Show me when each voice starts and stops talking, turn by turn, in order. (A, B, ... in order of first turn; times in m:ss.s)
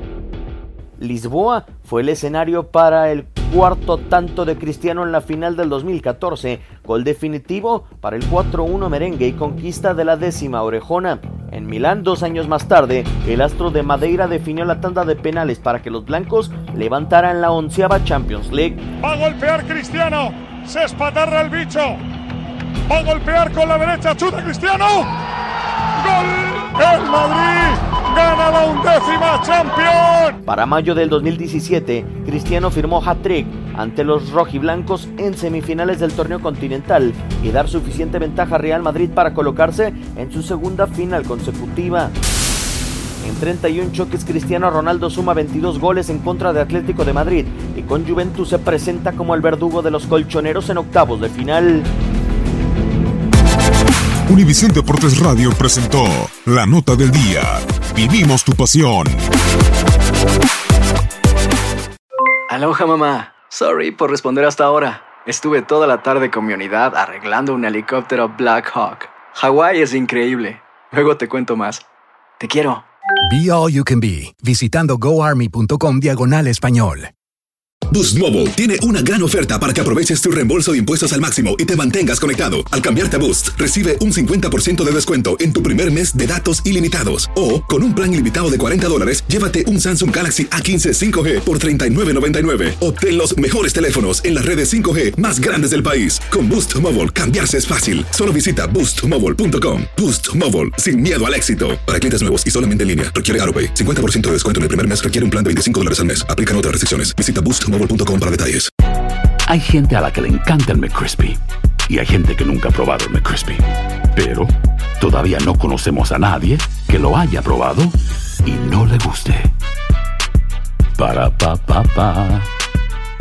0:01.0-0:18.8 A
0:19.0-0:22.0 B
0:22.9-0:25.1 B
0:26.0-0:30.4 B
0:30.5-0:42.1 A
0:43.2-0:51.9 A
0:54.3-0:59.2 C
1:02.5-1:11.8 D
1:12.4-1:12.8 D
1:13.3-1:17.1 E
1:17.9-1:48.7 F
1:49.5-1:53.6 G
1:54.2-1:57.9 G
1:58.4-1:59.5 G
2:01.0-2:02.5 G